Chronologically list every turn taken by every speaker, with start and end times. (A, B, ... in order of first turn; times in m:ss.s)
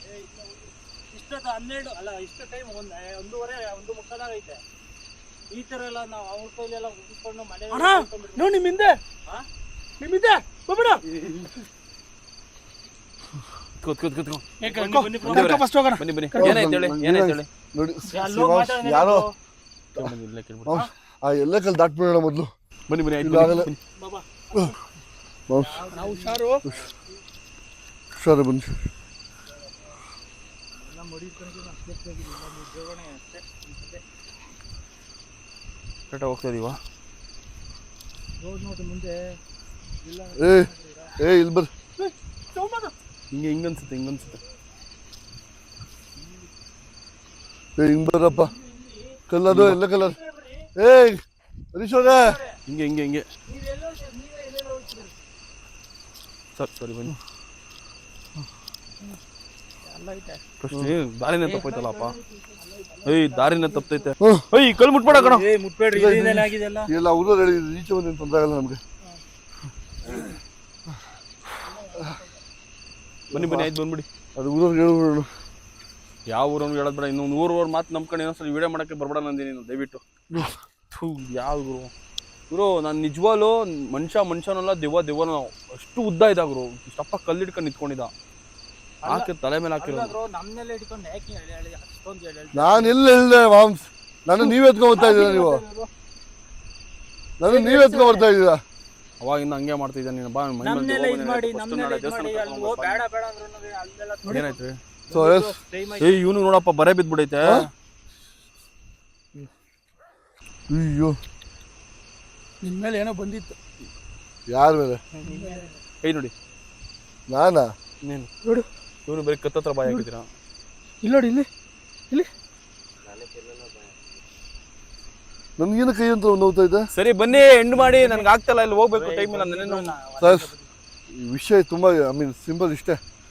0:00.2-0:04.6 A
0:05.5-0:08.6 A
0:07.7-0:09.0 B
0:10.0-0:11.4 B
0:13.8-0:14.4 C
0:14.6-0:16.6 B
0:14.6-0:15.6 A
0:15.2-0:17.5 C
0:16.4-0:19.2 D
0:18.1-0:19.3 A
0:20.0-0:20.8 C
0:20.6-0:22.5 D
0:22.9-0:23.8 C
0:23.2-0:23.7 D
0:24.0-0:24.7 A
0:25.5-0:25.8 D
0:25.5-0:27.1 A
0:25.9-0:26.6 B
0:28.1-0:28.8 D
0:30.7-0:34.0 A
0:36.1-0:36.8 C
0:38.4-0:39.4 A
0:40.0-0:41.2 A
0:40.4-0:41.7 D
0:42.0-0:42.9 B
0:43.3-0:44.4 C
0:47.8-0:48.5 D
0:48.6-0:48.9 A
0:49.3-0:50.2 D
0:49.5-0:49.8 C
0:50.0-0:50.7 A
0:50.8-0:51.2 D
0:51.7-0:52.4 D
0:52.7-0:53.2 C
0:53.6-0:55.0 B
0:53.6-0:55.1 A
0:56.6-0:57.2 C
0:59.9-1:00.4 B
1:00.6-1:02.1 C
1:01.4-1:04.1 B
1:03.0-1:05.4 C
1:04.2-1:04.4 D
1:05.1-1:06.9 A
1:05.9-1:08.8 D
1:11.6-1:12.4 B
1:13.3-1:13.7 D
1:13.3-1:14.0 C
1:14.4-1:15.3 D
1:16.3-1:20.0 C
1:20.3-1:20.6 D
1:20.9-1:21.9 C
1:22.5-1:28.1 C
1:29.0-1:33.0 A
1:29.0-1:30.1 C
1:32.5-1:35.6 D
1:34.9-1:35.9 B
1:37.4-1:38.6 D
1:37.5-1:38.3 A
1:39.2-1:43.0 C
1:40.6-1:46.2 A
1:44.3-1:44.8 C
1:45.1-1:45.5 D
1:46.0-1:47.7 C
1:50.7-1:51.2 D
1:52.6-1:53.6 B
1:54.5-1:55.0 D
1:55.2-1:55.6 A
1:55.2-1:55.8 B
1:56.0-1:56.3 C
1:57.3-1:57.7 D
1:59.1-2:00.3 C
2:01.0-2:01.5 B
2:05.6-2:06.8 D
2:06.9-2:09.9 C
2:07.9-2:08.2 A
2:08.9-2:10.7 A
2:10.2-2:10.5 D
2:11.1-2:13.0 D